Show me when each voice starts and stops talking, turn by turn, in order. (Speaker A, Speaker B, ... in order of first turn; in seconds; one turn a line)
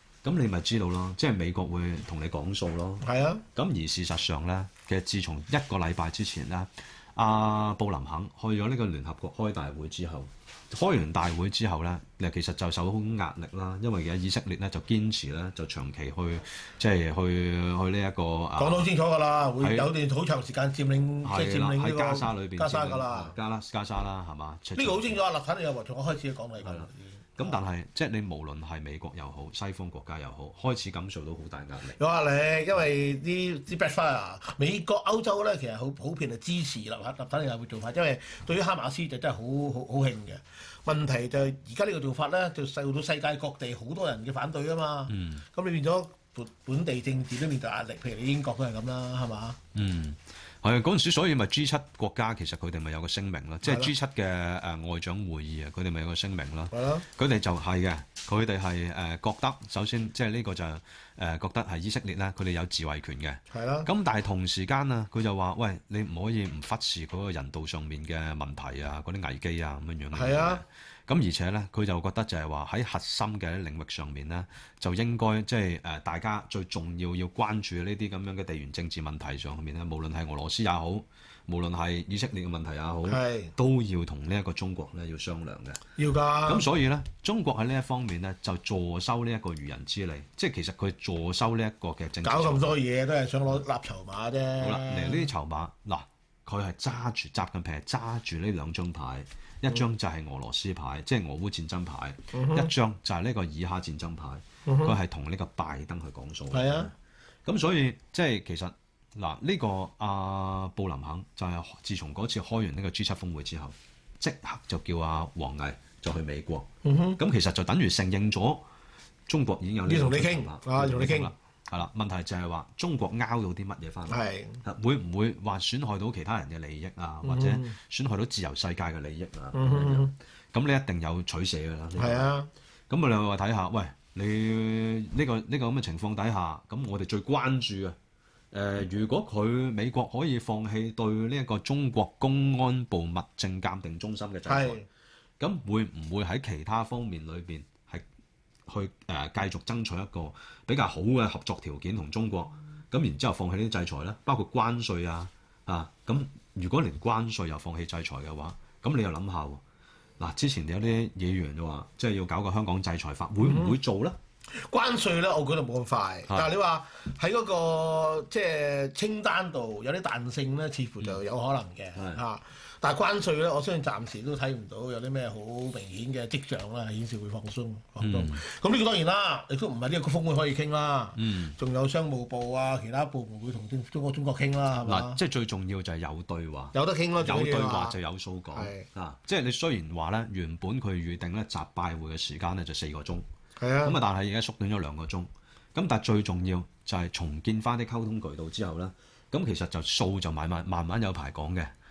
Speaker A: 0.2-18.9
Speaker B: 3.0-3.4
Speaker B: 18.6-23.3
Speaker A: 19.6-19.9
Speaker A: 21.2-25.2
Speaker B: 24.8-27.6
Speaker A: 26.6-32.0
Speaker B: 31.9-49.6
Speaker A: 45.1-45.4
Speaker A: 49.7-85.8
Speaker B: 53.6-53.9
Speaker B: 56.7-57.0
Speaker B: 63.5-63.9
Speaker B: 70.1-70.6
Speaker B: 83.1-83.5
Speaker B: 86.0-86.7
Speaker A: 86.4-92.8
Speaker B: 92.2-95.3
Speaker A: 94.6-106.9
Speaker B: 102.3-102.7
Speaker B: 104.7-104.9
Speaker B: 106.5-106.9
Speaker A: 107.4-118.6
Speaker B: 116.8-117.2
Speaker A: 119.3-132.3
Speaker B: 119.8-121.3
Speaker B: 124.1-124.6
Speaker B: 127.2-127.8
Speaker B: 129.5-130.1
Speaker B: 131.9-132.5
Speaker A: 132.9-137.9
Speaker A: 138.5-144.8
Speaker B: 144.4-144.8
Speaker A: 145.4-148.0
Speaker A: 148.7-159.6
Speaker A: 160.2-164.2
Speaker B: 163.4-163.8
Speaker B: 164.5-185.2
Speaker A: 171.9-172.2
Speaker A: 178.0-178.4
Speaker A: 181.2-181.6
Speaker A: 184.8-193.2
Speaker B: 186.7-188.0
Speaker B: 188.5-188.9
Speaker B: 193.6-194.0
Speaker A: 193.8-201.7